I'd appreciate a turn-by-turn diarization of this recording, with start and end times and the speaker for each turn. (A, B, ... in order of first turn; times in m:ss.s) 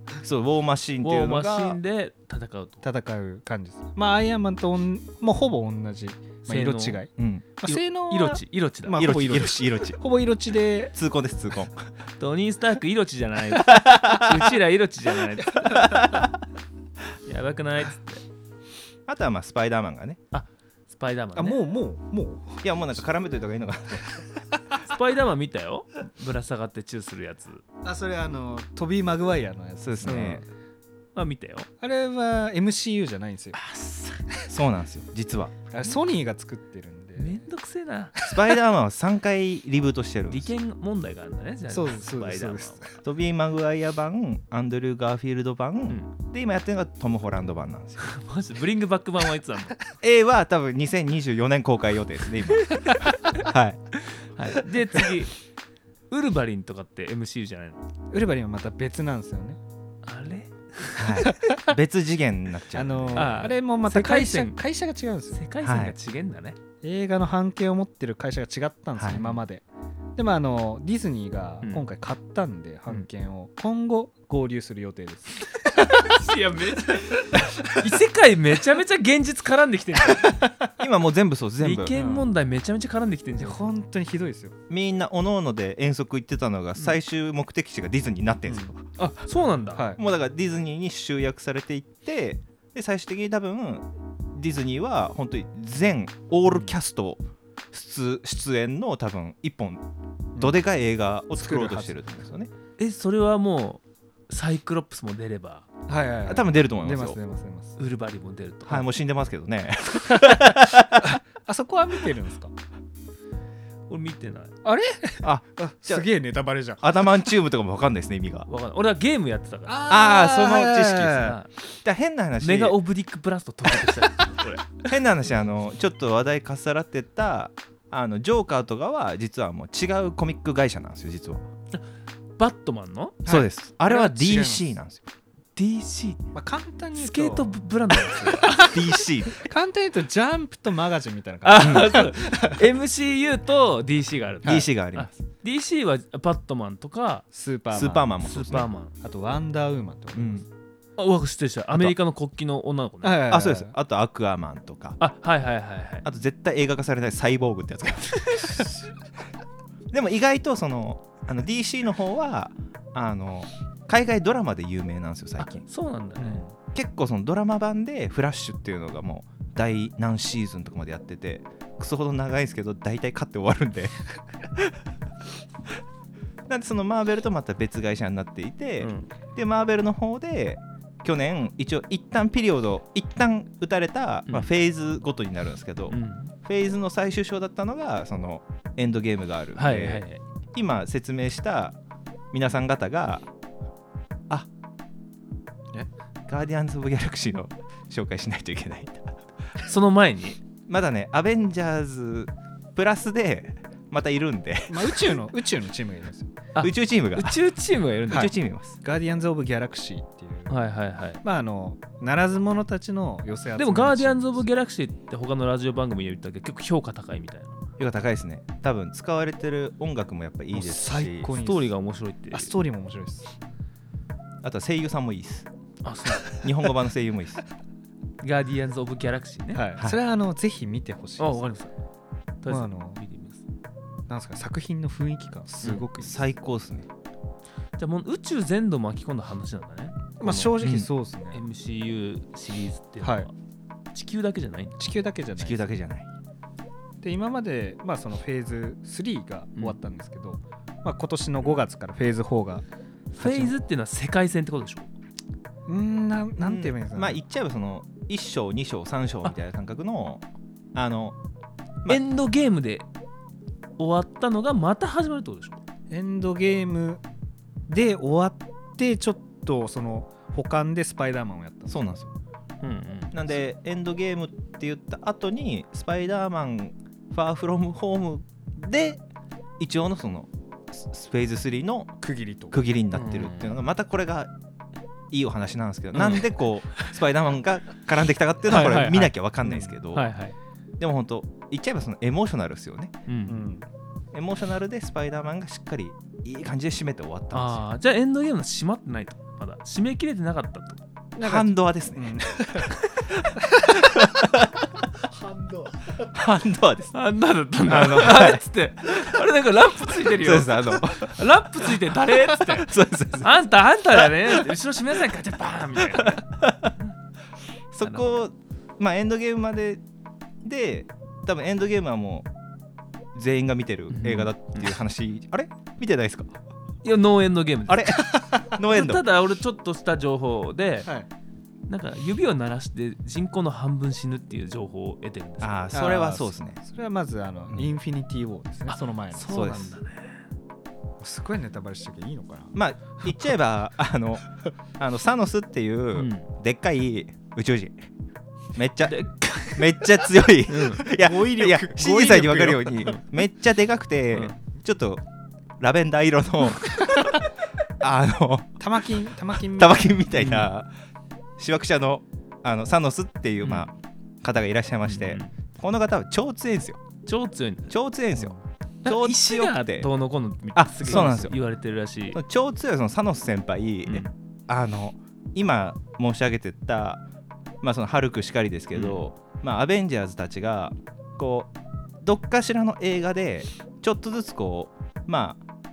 0:00.2-0:01.8 A
0:01.0-0:02.8 B
0:02.8-0:10.9 C
0:06.4-0:07.0 B
0:07.2-0:07.6 A
0:07.6-0:09.4 B
0:08.9-0:10.0 A
0:10.9-0:11.9 A
0:12.2-0:15.9 B
0:13.7-0:14.4 A
0:15.8-0:16.2 A
0:17.2-0:18.2 B
0:19.1-0:20.2 A
0:20.3-0:21.6 B
0:21.3-0:22.6 C
0:22.6-0:24.3 A
0:24.8-0:27.6 B
0:27.8-0:30.4 C
0:29.8-0:30.4 A
0:31.1-0:31.7 B
0:31.8-0:33.6 C
0:33.5-0:34.2 B
0:34.5-0:35.6 A
0:35.7-0:37.5 C
0:37.2-0:38.1 B
0:38.2-0:40.5 A
0:40.3-0:42.9 B
0:41.7-0:42.9 C
0:43.0-0:48.1 A
0:48.0-0:49.8 B
0:50.0-0:53.9 A
0:54.2-0:55.3 B
0:56.1-0:57.8 B
0:58.1-0:59.6 C
1:00.0-1:01.2 B
1:01.0-1:03.4 A
1:01.2-1:01.6 C
1:02.7-1:05.4 C
1:03.1-1:04.6 B
1:05.3-1:06.6 B
1:05.6-1:05.9 A
1:06.8-1:09.6 C
1:10.2-1:16.1 C
1:11.6-1:11.9 B
1:15.9-1:20.4 B
1:20.8-1:22.0 A
1:21.6-1:23.7 B
1:21.9-1:22.3 C
1:23.4-1:24.5 C
1:24.7-1:29.0 A
1:29.0-1:29.8 B
1:29.7-1:30.0 C
1:30.0-1:39.8 A
1:40.4-1:42.5 A
1:41.4-1:42.0 C
1:42.8-1:45.7 B
1:45.9-1:47.8 C
1:46.2-1:47.2 A
1:47.8-1:48.9 B
1:48.6-1:51.1 A
1:51.0-1:52.5 C
1:53.9-1:54.5 B
1:54.6-1:56.8 C
1:55.2-1:56.1 A
1:56.8-1:58.5 A
1:58.5-1:59.9 B
1:59.7-2:01.4 C
1:59.8-2:02.8 A
2:01.2-2:01.5 B
2:02.4-2:04.7 B
2:04.8-2:11.4 A
2:12.4-2:13.2 B
2:13.2-2:14.8 C
2:13.2-2:15.0 A
2:15.6-2:16.2 B
2:16.3-2:17.6 C
2:16.9-2:18.7 B
2:18.2-2:22.6 C
2:18.6-2:19.4 A
2:21.4-2:27.2 B
2:21.6-2:21.9 A
2:24.4-2:25.1 A
2:27.3-2:28.2 C
2:27.7-2:28.7 A
2:28.2-2:28.9 B
2:29.0-2:30.4 C
2:30.2-2:30.4 A
2:31.0-2:33.3 B
2:33.0-2:33.7 C
2:33.3-2:35.0 A
2:35.0-2:36.0 B
2:36.0-2:38.8 A
2:39.9-2:45.6 A
2:45.4-2:46.4 B
2:46.2-2:46.5 C
2:46.7-2:54.8 A
2:56.5-3:11.8 A
2:58.8-2:59.1 B
3:05.9-3:06.3 B
3:09.5-3:10.2 B
3:12.3-3:13.2 A
3:16.3-3:19.7 A
3:19.6-3:20.4 B
3:20.7-3:25.2 A
3:24.7-3:26.3 C
3:26.5-3:28.3 B
3:26.6-3:27.4 A
3:28.1-3:28.8 A
3:28.1-3:30.6 C
3:30.5-3:31.2 B
3:31.2-3:34.4 C
3:33.6-3:37.5 B
3:37.8-3:41.3 A
3:40.5-3:41.7 C
3:41.3-3:42.5 B
3:42.3-3:43.3 C
3:44.4-3:45.5 A
3:45.8-3:46.4 B
3:46.2-3:47.4 A
3:48.2-3:49.6 B
3:49.5-3:51.5 C
3:51.2-3:51.7 B
3:52.4-3:53.4 B
3:52.5-3:53.0 C
3:54.1-3:56.2 C
3:55.9-3:56.9 A
3:57.8-4:00.6 B
4:00.2-4:01.4 C
4:00.6-4:00.9 A
4:01.3-4:03.3 B
4:03.0-4:03.3 C
4:03.9-4:04.8 B
4:04.8-4:05.7 C
4:05.4-4:06.1 A
4:07.0-4:12.6 C
4:13.1-4:14.9 B
4:13.2-4:13.5 C
4:15.7-4:17.2 C
4:16.4-4:20.2 A
4:20.7-4:21.2 A
4:21.9-4:22.8 B
4:23.8-4:25.6 B
4:25.9-4:27.0 C
4:27.7-4:31.8 C
4:31.7-4:32.1 A
4:32.6-4:33.2 B
4:33.1-4:39.0 A
4:39.6-4:44.3 A
4:42.0-4:42.6 C
4:42.9-4:43.6 B
4:45.1-4:50.1 A
4:46.0-4:46.2 B
4:48.5-4:49.1 B
4:49.4-4:49.7 C
4:49.9-4:50.3 B
4:50.8-4:52.9 A
4:53.1-4:53.5 B
4:53.3-4:53.6 C
4:54.1-4:57.6 A
4:57.3-5:00.8 B
5:01.2-5:02.7 C
5:01.2-5:04.5 A
5:03.4-5:03.8 C
5:05.1-5:05.8 C
5:06.0-5:06.9 A
5:06.9-5:12.7 B
5:07.6-5:08.4 A
5:10.0-5:11.2 A
5:12.3-5:13.4 A
5:13.2-5:16.2 B
5:16.4-5:16.7 A
5:17.7-5:19.8 A
5:17.8-5:18.2 B
5:20.4-5:22.3 A
5:23.1-5:26.3 A
5:23.9-5:24.7 B
5:26.8-5:28.0 B
5:27.7-5:29.0 A
5:28.6-5:30.9 B
5:31.7-5:35.6 B
5:35.4-5:36.6 A
5:35.7-5:39.6 C
5:38.7-5:40.2 B
5:39.3-5:39.7 A
5:41.0-5:42.6 C
5:42.5-5:47.7 A
5:45.9-5:46.3 B
5:48.5-5:49.0 A
5:48.8-5:49.9 B
5:49.5-5:55.0 A
5:50.5-5:50.9 B
5:50.9-5:53.0 C
5:55.6-5:57.3 A
5:57.8-5:58.6 A
5:58.6-6:00.0 C
5:59.5-6:00.7 A
6:00.1-6:00.5 B
6:01.4-6:06.8 A
6:03.4-6:03.7 B
6:04.8-6:05.3 B
6:07.0-6:07.8 B
6:07.7-6:09.9 A
6:08.8-6:12.2 B
6:10.5-6:11.4 A
6:12.1-6:17.0 A
6:13.8-6:14.1 B
6:17.6-6:25.4 A
6:18.7-6:19.0 B